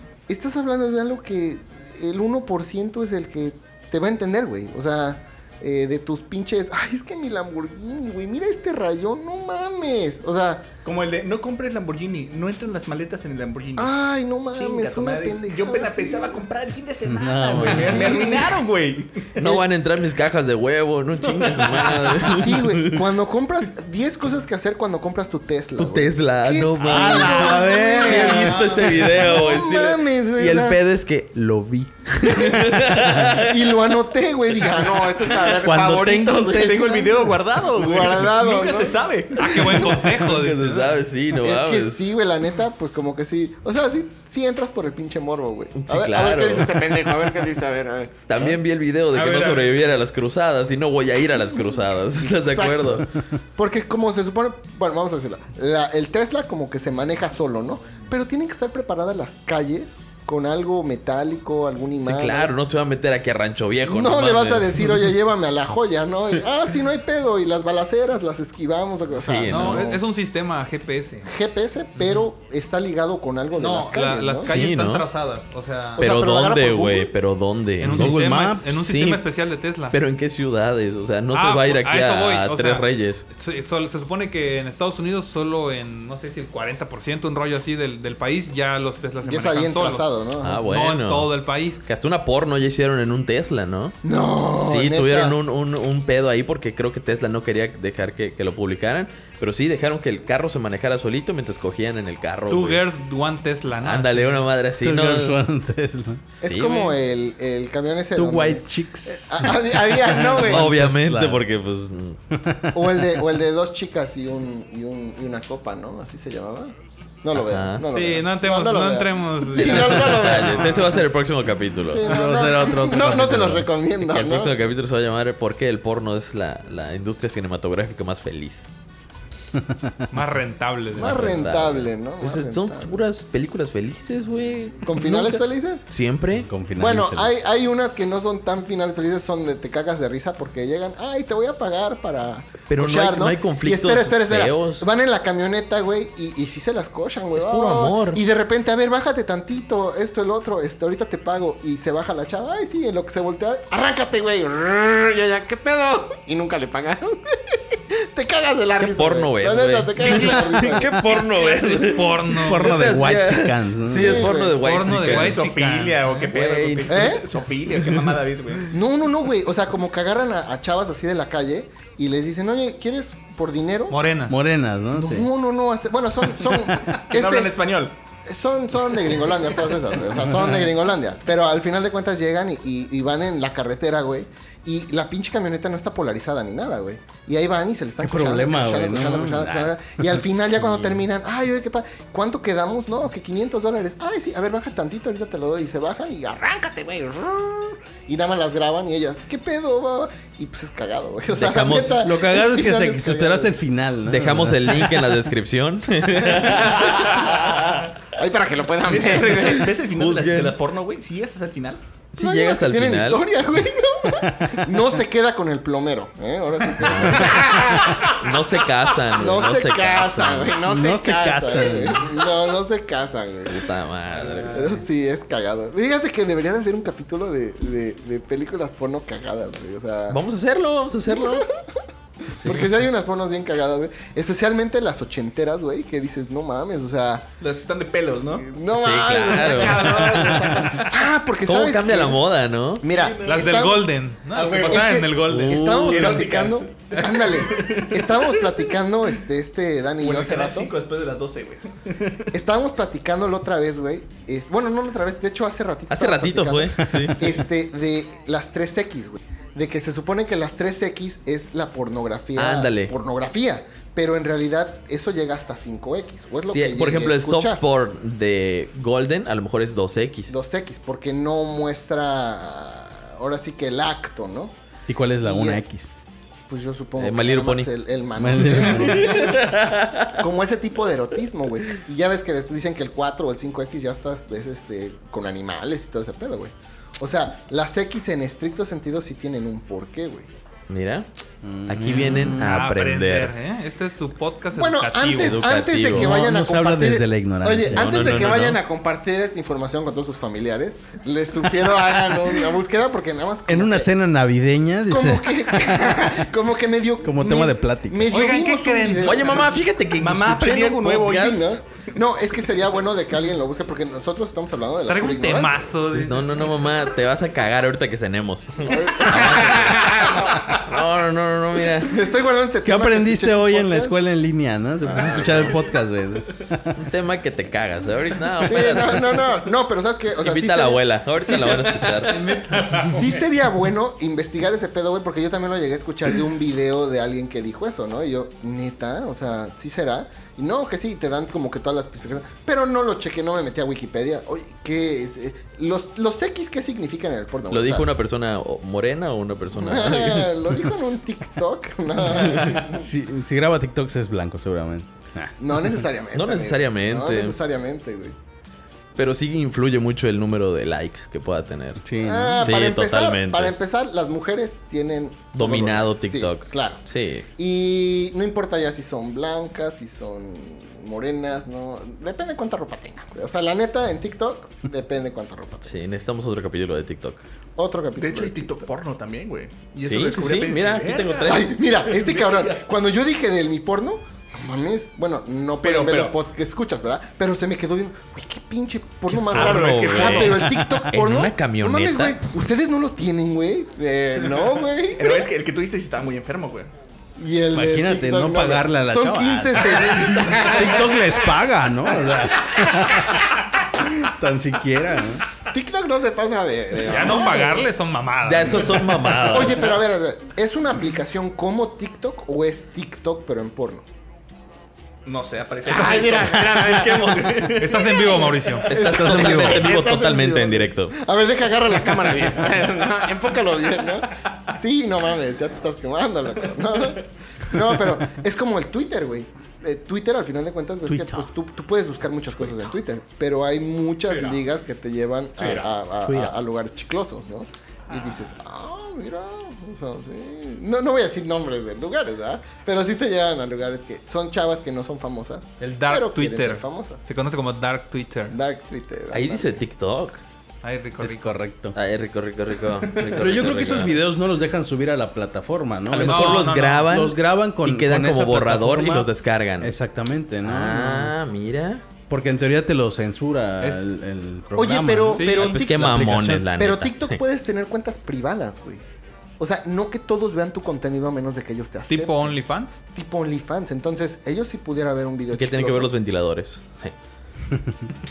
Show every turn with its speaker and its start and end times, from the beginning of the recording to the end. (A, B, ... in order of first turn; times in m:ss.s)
0:00.3-0:10.7 A
0:10.8-0:13.9 B
0:13.8-0:16.4 A
0:14.5-0:19.5 B
0:17.0-0:18.2 C
0:17.6-0:18.6 A
0:19.4-0:23.1 D
0:21.3-0:22.2 B
0:22.2-0:30.8 A
0:25.8-0:33.9 D
0:26.9-0:28.4 C
0:27.2-0:27.6 B
0:28.2-0:28.8 B
0:32.2-0:40.2 A
0:35.6-0:37.1 C
0:36.5-0:39.8 B
0:39.4-0:42.1 D
0:39.4-0:41.0 E
0:41.4-0:48.4 A
0:45.7-0:46.9 D
0:48.3-0:53.1 D
0:49.1-0:49.8 E
0:51.8-1:02.5 A
1:02.0-1:05.0 D
1:03.8-1:10.0 A
1:09.1-1:09.9 D
1:09.4-1:11.3 E
1:11.2-1:14.6 A
1:12.0-1:12.2 E
1:13.6-1:16.1 E
1:14.4-1:15.0 D
1:16.0-1:17.1 A
1:16.0-1:18.2 D
1:17.8-1:20.0 E
1:17.8-1:18.6 C
1:18.7-1:19.2 D
1:19.9-1:23.2 D
1:21.3-1:30.1 E
1:29.2-1:30.6 A
1:30.4-1:31.3 D
1:30.6-1:31.8 E
1:31.8-1:34.0 D
1:34.0-1:35.4 A
1:34.6-1:42.8 D
1:42.5-1:44.4 E
1:43.8-1:45.4 D
1:44.8-1:46.2 C
1:46.4-1:50.7 A
1:46.4-1:46.9 D
1:48.2-1:51.4 C
1:50.3-1:52.2 D
1:52.3-1:53.0 C
1:52.7-2:01.0 A
1:57.4-1:57.8 D
1:57.9-2:01.0 E
1:59.6-2:02.1 D
2:01.8-2:04.6 A
2:02.0-2:03.7 C
2:04.0-2:08.7 D
2:10.1-2:11.4 E
2:10.9-2:13.0 A
2:10.9-2:16.5 D
2:14.8-2:15.9 A
2:16.4-2:17.3 C
2:16.8-2:41.0 A
2:22.7-2:24.8 D
2:27.4-2:28.2 D
2:38.8-2:45.4 D
2:40.0-2:42.8 E
2:42.4-2:44.3 C
2:43.9-2:44.6 A
2:44.6-2:46.3 E
2:44.9-2:48.7 B
2:46.3-2:47.2 D
2:46.9-2:47.3 A
2:48.7-2:54.0 A
2:53.9-2:54.3 E
2:54.3-2:55.3 C
2:54.9-2:57.6 A
2:56.5-2:57.9 B
2:58.2-3:23.6 A
3:08.0-3:10.6 C
3:21.3-3:22.0 D
3:22.0-3:25.0 C
3:24.0-3:27.9 D
3:28.1-3:29.8 A
3:28.8-3:31.8 B
3:29.9-3:30.6 D
3:32.1-3:33.2 D
3:32.1-3:38.3 A
3:34.1-3:34.6 C
3:36.8-3:40.6 D
3:39.1-3:43.7 A
3:40.6-3:42.1 C
3:43.5-3:44.8 D
3:44.4-3:50.2 A
3:50.1-3:51.5 D
3:51.1-3:57.2 A
3:52.3-3:52.7 D
3:57.4-3:58.5 B
3:58.4-4:02.2 A
3:58.7-4:00.2 D
3:59.2-4:00.9 B
4:01.4-4:02.9 D
4:02.8-4:03.9 A
4:02.9-4:03.6 B
4:03.2-4:05.8 E
4:04.3-4:05.0 B
4:04.7-4:10.7 A
4:05.2-4:06.3 D
4:05.8-4:08.6 B
4:10.0-4:12.3 B
4:12.3-4:27.6 A
4:15.9-4:17.4 D
4:22.4-4:22.9 D
4:26.4-4:30.3 D
4:30.3-4:34.5 A
4:34.9-4:35.9 C
4:35.2-4:35.6 A
4:36.5-4:39.5 A
4:37.0-4:37.7 D
4:38.2-4:39.1 C
4:38.6-4:40.2 D
4:40.1-4:50.3 A
4:50.7-4:51.1 D
4:51.4-4:52.5 C
4:51.7-4:53.3 D
4:52.2-4:55.5 E
4:54.5-5:03.9 A
4:55.2-4:56.2 D
4:55.9-4:58.0 C
4:57.7-4:58.6 D
5:03.5-5:05.9 C
5:04.9-5:09.6 A
5:07.0-5:08.1 C
5:08.1-5:09.5 E
5:09.0-5:11.6 D
5:10.0-5:11.6 B
5:11.2-5:15.8 A
5:14.9-5:16.3 E
5:15.9-5:22.0 D
5:18.6-5:20.6 A
5:21.8-5:23.9 A
5:22.6-5:26.8 C
5:24.8-5:25.6 A
5:25.0-5:25.5 D
5:26.8-5:29.3 D
5:28.4-5:32.0 A
5:30.2-5:32.2 D
5:32.1-5:33.2 E
5:32.8-5:47.9 A
5:47.5-5:50.4 D
5:49.5-5:52.9 A
5:52.2-5:52.6 D
5:52.7-5:55.4 C
5:55.4-5:58.2 A
5:56.1-5:57.4 D
5:59.0-6:01.8 D
6:01.8-6:02.4 C
6:02.0-6:06.8 A
6:02.4-6:03.5 D
6:05.3-6:07.3 D
6:07.4-6:15.8 A
6:15.6-6:17.2 D
6:17.6-6:18.4 A
6:18.0-6:21.4 B
6:19.8-6:21.6 D
6:21.2-6:35.2 A
6:21.9-6:22.5 B
6:25.6-6:26.1 B
6:29.1-6:30.4 B
6:29.3-6:32.2 D
6:30.4-6:30.9 C
6:35.0-6:36.7 B
6:37.2-6:41.2 A
6:37.5-6:45.2 C
6:42.0-6:43.2 A
6:45.5-6:47.7 A
6:46.8-6:49.1 E
6:48.2-6:49.8 D
6:49.2-6:53.8 A
6:55.0-6:58.3 B
6:55.6-7:27.0 A
6:57.5-6:58.7 E
6:58.7-7:00.9 D
6:58.8-6:59.7 C
7:10.8-7:11.3 C
7:15.4-7:15.7 B
7:16.0-7:16.3 C
7:25.6-7:28.4 E
7:28.3-7:29.6 A
7:29.1-7:30.2 D
7:30.6-7:31.4 E
7:31.0-7:31.8 C
7:31.7-7:34.0 D
7:33.1-7:41.1 C
7:35.9-7:39.7 D
7:36.0-7:36.9 E
7:40.4-7:41.8 D
7:42.1-7:46.5 C
7:43.6-7:44.0 E
7:44.6-7:48.8 A
7:45.1-7:45.6 E
7:45.3-7:47.2 D
7:49.4-7:52.3 A
7:51.9-7:52.8 E
7:52.9-7:55.9 A
7:55.3-7:56.9 D